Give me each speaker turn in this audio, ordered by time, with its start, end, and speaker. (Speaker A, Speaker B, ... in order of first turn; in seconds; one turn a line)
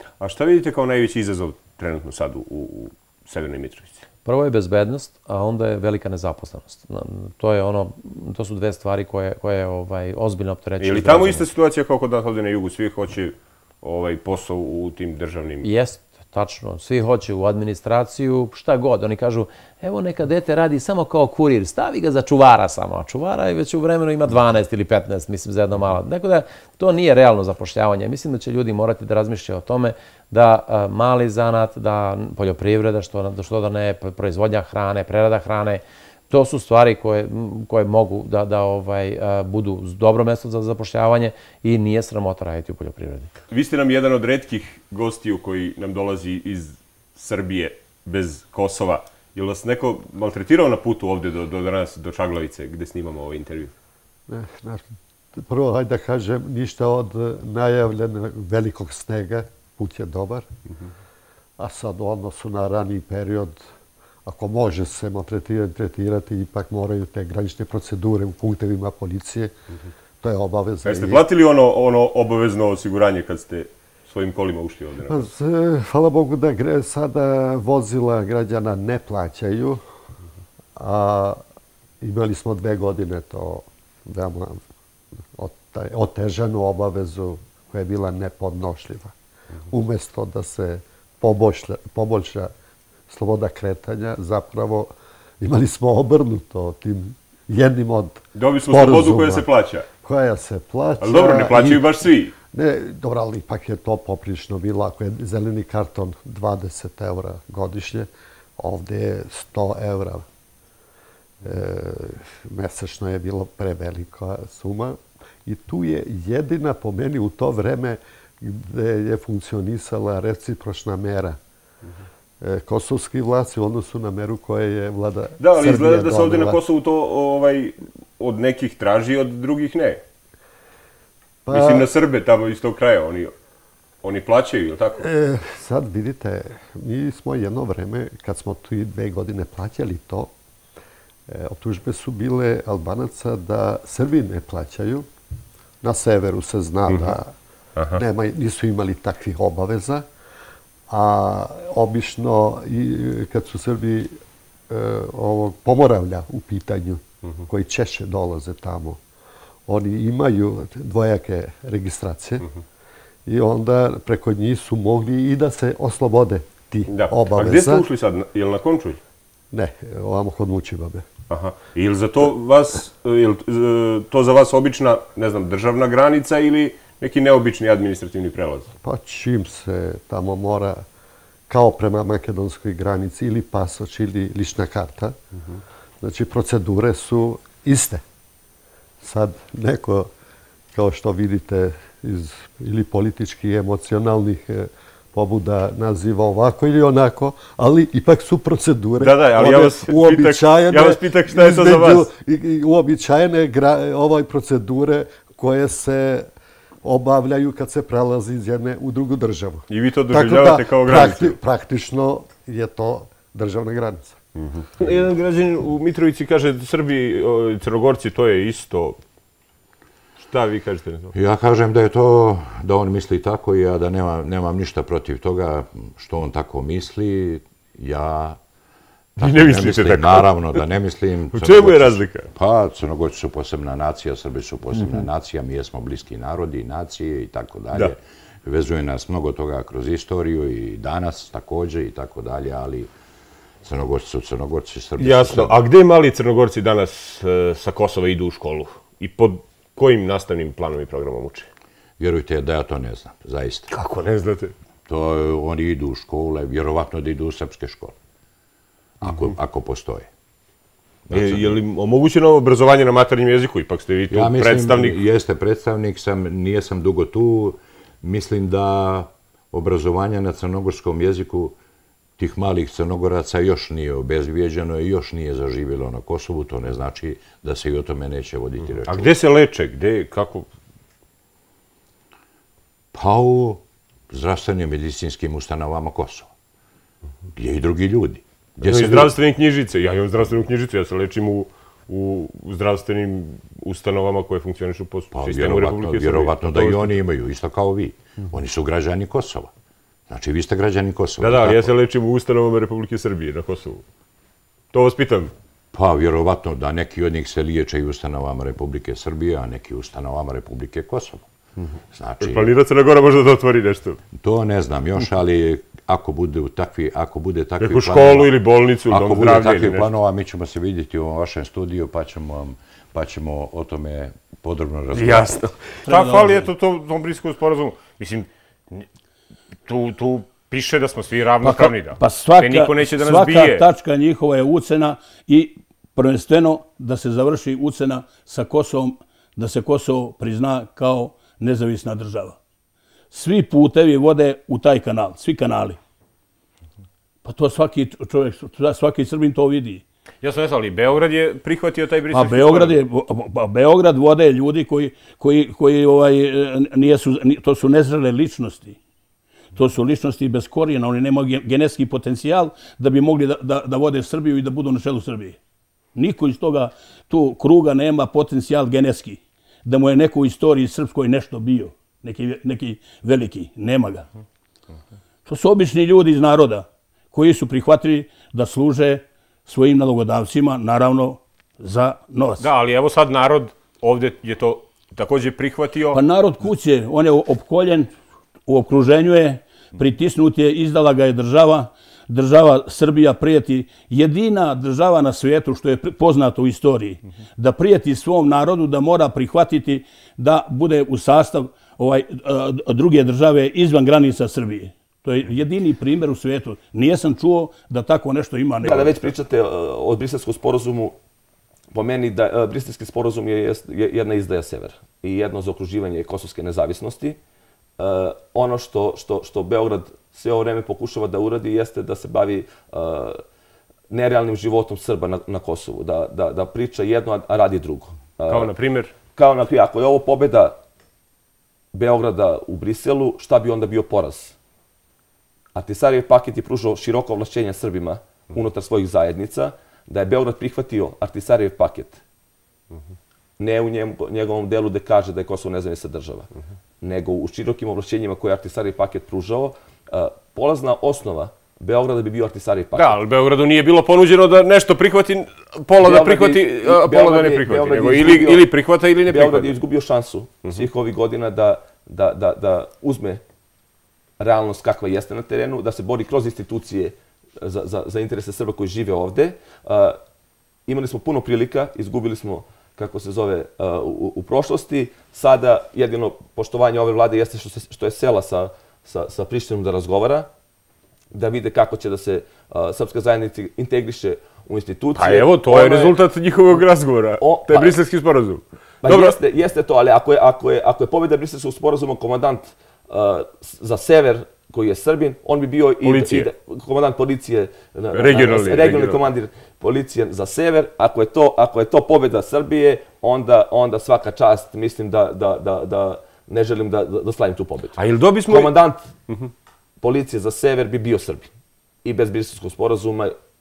Speaker A: 0.2-4.0
Speaker B: 4.2-11.4
Speaker A: 10.8-15.7
Speaker B: 15.6-43.3
Speaker A: 43.5-53.7
Speaker C: 54.3-60.5
Speaker C: 61.6-63.6
Speaker C: 64.2-69.5
Speaker C: 70.2-71.2
Speaker A: 70.8-75.2
Speaker C: 75.0-79.8
Speaker C: 80.8-81.4
Speaker C: 82.0-84.6
Speaker C: 85.4-89.1
Speaker C: 89.7-92.5
Speaker C: 93.1-99.5
Speaker A: 98.3-99.9
Speaker C: 100.0-101.9
Speaker A: 101.0-102.3
Speaker C: 102.5-110.3
Speaker C: 111.4-121.4
Speaker C: 122.4-126.6
Speaker A: 125.4-130.0
Speaker C: 131.5-131.9
Speaker A: 131.5-133.3
Speaker A: 134.0-135.0
Speaker C: 135.0-140.3
Speaker C: 141.3-145.1
Speaker C: 145.8-147.3
Speaker A: 146.9-147.2
Speaker C: 147.9-150.1
Speaker C: 150.9-154.1
Speaker C: 154.7-159.0
Speaker C: 159.7-162.5
Speaker C: 163.3-167.9
Speaker A: 166.9-169.0
Speaker C: 169.5-171.1
Speaker A: 171.3-178.7
Speaker C: 178.8-180.8
Speaker C: 181.5-185.2
Speaker C: 186.0-188.0
Speaker C: 189.0-190.1
Speaker C: 190.7-206.3
Speaker A: 199.0-202.1
Speaker C: 206.8-214.2
Speaker A: 209.7-211.4
Speaker A: 214.4-219.0
Speaker A: 220.2-221.1
Speaker D: 221.1-228.4
Speaker A: 229.2-230.6
Speaker D: 229.2-242.9
Speaker A: 231.3-232.3
Speaker A: 234.7-235.1
Speaker D: 243.6-245.6
Speaker A: 245.0-251.5
Speaker D: 252.0-253.7
Speaker A: 253.7-254.5
Speaker D: 254.9-257.9
Speaker D: 259.0-260.1
Speaker A: 259.0-259.4
Speaker D: 261.1-261.6
Speaker A: 261.1-265.0
Speaker D: 264.1-271.6
Speaker D: 272.2-279.1
Speaker A: 278.7-280.5
Speaker D: 282.9-286.3
Speaker D: 287.4-289.1
Speaker A: 288.6-296.9
Speaker D: 295.1-299.5
Speaker D: 300.1-301.8
Speaker A: 301.2-303.8
Speaker A: 304.7-305.3
Speaker D: 305.7-311.3
Speaker D: 311.9-312.5
Speaker A: 312.2-314.0
Speaker D: 314.2-318.3
Speaker A: 317.6-319.9
Speaker D: 318.9-325.4
Speaker A: 324.9-328.9
Speaker E: 325.9-326.5
Speaker A: 329.7-333.6
Speaker E: 331.4-342.4
Speaker E: 343.1-345.8
Speaker E: 347.2-349.8
Speaker A: 350.2-352.8
Speaker E: 352.1-358.8
Speaker E: 359.6-365.4
Speaker E: 365.9-374.1
Speaker E: 375.3-382.5
Speaker A: 382.4-386.0
Speaker E: 385.9-387.9
Speaker E: 388.5-409.1
Speaker F: 408.6-411.0
Speaker F: 411.7-417.2
Speaker F: 417.8-423.2
Speaker F: 423.9-428.5
Speaker A: 428.3-428.9
Speaker F: 429.1-430.6
Speaker F: 431.7-434.4
Speaker F: 435.6-442.0
Speaker F: 443.4-446.3
Speaker F: 446.8-453.0
Speaker A: 452.8-459.5
Speaker F: 455.8-458.4
Speaker F: 459.1-463.2
Speaker F: 464.2-470.0
Speaker F: 470.7-480.3
Speaker F: 481.1-486.0
Speaker A: 485.0-489.2
Speaker F: 487.2-487.8
Speaker F: 488.8-508.9
Speaker A: 495.8-496.3
Speaker A: 497.9-499.0
Speaker A: 507.8-508.6
Speaker F: 509.8-511.3
Speaker F: 511.8-513.2